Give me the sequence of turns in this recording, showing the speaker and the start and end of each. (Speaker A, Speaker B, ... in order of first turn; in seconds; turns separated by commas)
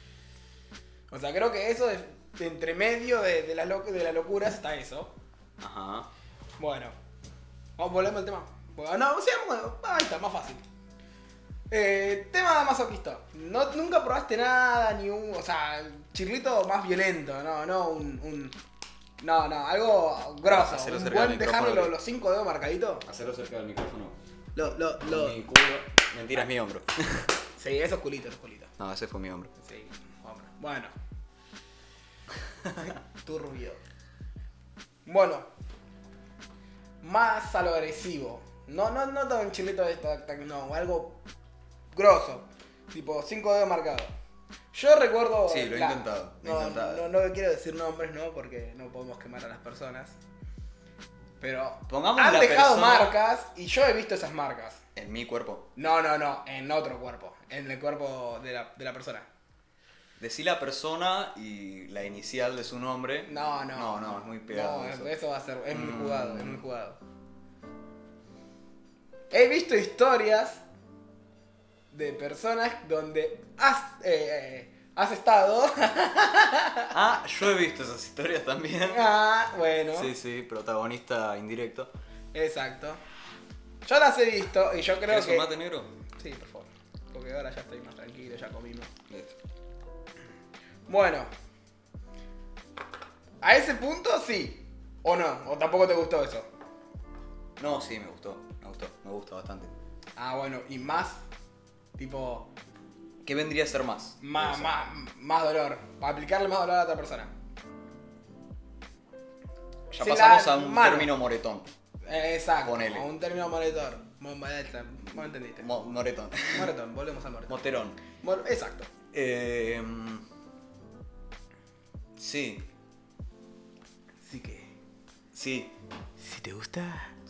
Speaker A: 1.1-5.1, Speaker B: 5.6-6.1, Speaker A: 6.6-7.0, Speaker A: 7.8-10.6, Speaker A: 11.7-18.6, Speaker A: 19.2-23.1, Speaker B: 20.5-21.9, Speaker B: 23.1-24.2, Speaker A: 24.6-25.5, Speaker B: 25.0-27.3, Speaker A: 27.6-28.7, Speaker B: 28.8-29.5, Speaker A: 29.6-30.9, Speaker A: 32.8-33.8, Speaker A: 35.1-35.5, Speaker A: 37.0-41.2, Speaker A: 41.9-44.1, Speaker A: 44.7-50.2, Speaker B: 45.5-47.1, Speaker A: 51.4-54.8, Speaker B: 51.9-53.2, Speaker B: 55.0-55.7, Speaker A: 55.8-59.3, Speaker B: 60.2-65.1, Speaker A: 63.3-67.0, Speaker B: 65.7-66.6, Speaker A: 69.3-70.6, Speaker A: 71.9-76.9, Speaker B: 76.9-79.1, Speaker A: 78.9-80.1, Speaker B: 79.9-81.9, Speaker A: 82.3-83.0, Speaker A: 83.8-85.5, Speaker B: 85.1-85.9, Speaker A: 86.2-88.9, Speaker B: 89.1-89.4, Speaker A: 90.9-91.3, Speaker A: 93.4-96.5, Speaker B: 97.6-99.8, Speaker A: 100.2-101.2, Speaker A: 102.0-102.5, Speaker B: 103.2-104.7, Speaker A: 104.2-107.3, Speaker B: 109.9-111.7, Speaker A: 110.0-111.1, Speaker A: 112.1-115.8, Speaker B: 112.6-113.1, Speaker B: 115.6-116.7, Speaker A: 116.5-118.9, Speaker B: 117.5-118.0, Speaker B: 119.1-120.3, Speaker B: 122.2-122.7, Speaker A: 124.2-124.7, Speaker B: 125.3-125.8, Speaker A: 126.2-127.2